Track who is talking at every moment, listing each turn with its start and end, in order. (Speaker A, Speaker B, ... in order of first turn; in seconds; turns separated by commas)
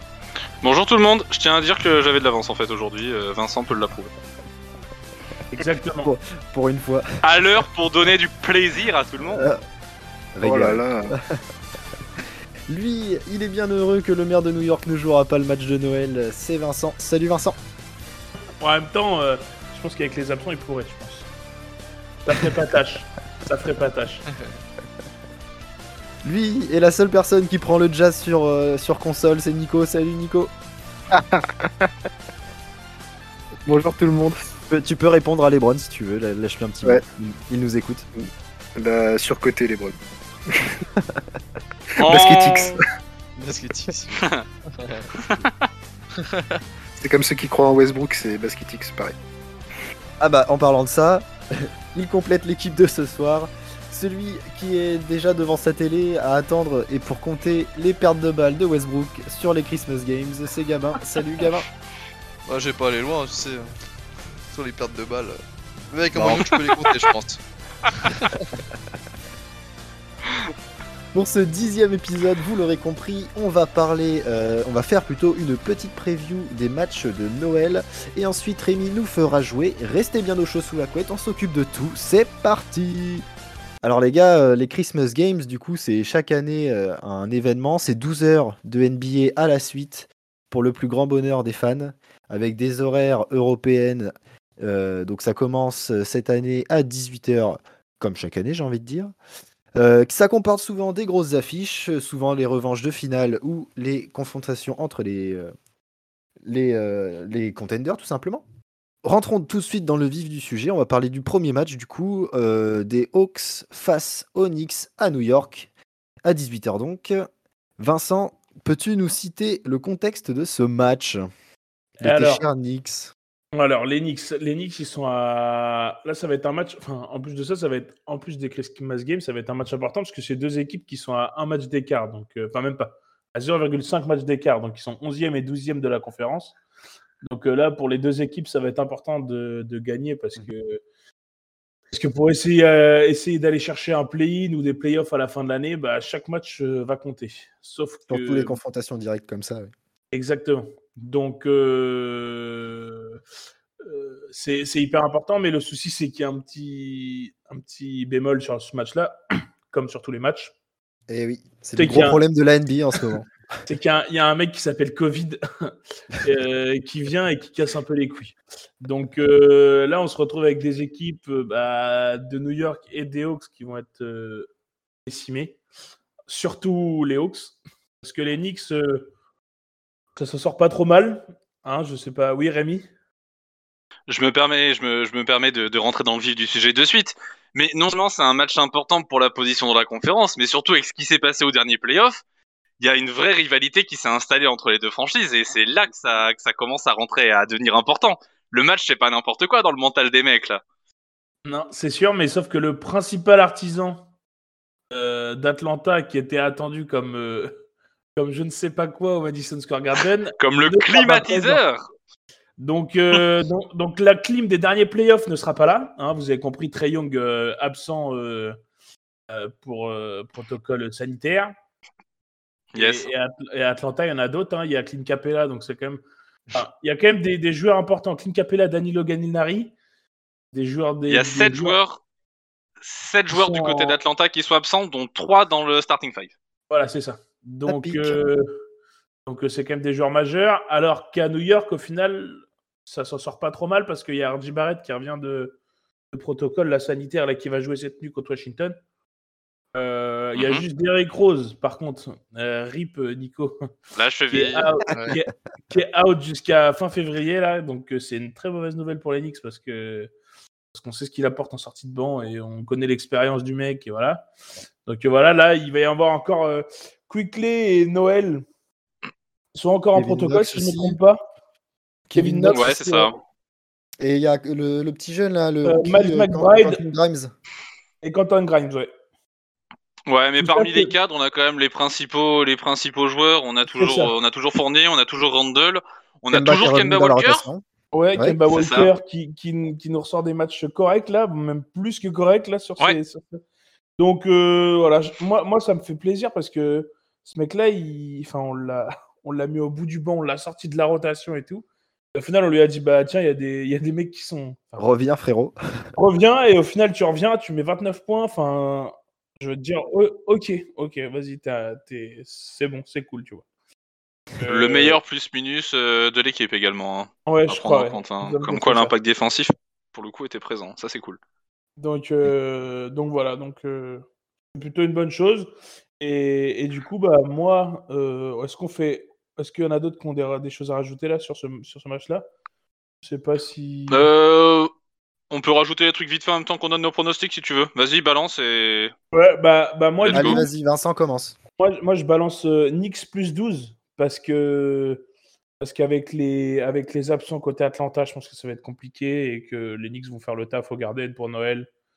Speaker A: 0.6-4.1, Speaker B: 5.5-6.1, Speaker C: 6.0-7.4, Speaker A: 7.2-9.5, Speaker C: 9.2-9.6, Speaker C: 10.3-11.4, Speaker D: 10.4-11.1, Speaker C: 12.7-17.6, Speaker B: 18.6-21.3, Speaker B: 22.3-24.2, Speaker C: 26.2-30.5, Speaker D: 31.1-31.9, Speaker D: 33.7-34.4, Speaker C: 34.7-38.1, Speaker D: 38.2-40.0, Speaker C: 40.9-41.2, Speaker A: 42.0-42.8, Speaker D: 42.0-42.8, Speaker E: 43.4-45.5, Speaker E: 46.2-46.6, Speaker D: 47.0-49.1, Speaker C: 50.2-61.7, Speaker E: 62.5-63.8, Speaker E: 64.5-65.4, Speaker E: 65.9-68.4, Speaker C: 66.1-66.5, Speaker A: 66.5-67.0, Speaker C: 71.1-83.3, Speaker C: 83.8-99.1, Speaker C: 99.8-105.5, Speaker C: 106.4-108.4, Speaker C: 109.0-115.7, Speaker C: 116.2-117.3, Speaker C: 117.8-121.2, Speaker B: 122.0-122.5, Speaker C: 122.0-123.1, Speaker B: 123.5-136.6, Speaker B: 137.3-140.8, Speaker B: 141.9-148.6, Speaker C: 148.1-149.7, Speaker B: 150.1-153.2, Speaker B: 153.8-159.2, Speaker B: 159.7-160.5, Speaker C: 161.1-163.3, Speaker B: 161.8-162.2, Speaker B: 163.7-174.5, Speaker B: 175.1-175.6, Speaker B: 176.3-179.1, Speaker B: 180.2-182.9, Speaker A: 184.1-192.2, Speaker A: 192.8-200.6, Speaker B: 201.4-204.0, Speaker B: 204.9-207.6, Speaker B: 208.2-211.6, Speaker A: 210.4-211.8, Speaker B: 212.6-218.6, Speaker B: 219.3-221.5, Speaker A: 222.7-223.1, Speaker B: 222.8-226.0, Speaker B: 226.5-229.7, Speaker B: 230.5-231.8, Speaker A: 231.1-232.0, Speaker A: 232.8-236.3, Speaker B: 233.3-234.0, Speaker B: 236.7-238.5, Speaker C: 237.7-238.2, Speaker B: 239.3-245.6, Speaker B: 246.1-248.8, Speaker B: 249.7-253.7, Speaker A: 250.3-250.6, Speaker A: 253.9-254.7, Speaker B: 254.3-260.1, Speaker E: 254.9-255.2, Speaker B: 260.7-264.3, Speaker B: 264.9-268.4, Speaker B: 269.5-271.2, Speaker C: 269.9-271.0, Speaker C: 272.1-272.9, Speaker B: 272.2-273.1, Speaker A: 272.5-273.1, Speaker C: 274.0-277.3, Speaker B: 275.6-276.8, Speaker B: 278.0-278.9, Speaker A: 280.1-287.4, Speaker B: 280.4-280.9, Speaker B: 283.7-284.1, Speaker C: 286.3-287.6, Speaker B: 287.9-293.4, Speaker A: 288.5-288.9, Speaker B: 294.0-304.8, Speaker C: 304.8-305.6, Speaker B: 306.0-313.4, Speaker B: 314.4-315.0, Speaker A: 314.5-321.2, Speaker B: 317.3-318.9, Speaker B: 321.8-324.0, Speaker B: 324.6-332.3, Speaker B: 333.0-334.1, Speaker A: 333.9-334.7, Speaker A: 335.3-338.9, Speaker B: 339.1-340.5, Speaker A: 340.0-340.4, Speaker C: 340.1-341.4, Speaker B: 341.6-345.1, Speaker B: 345.6-351.7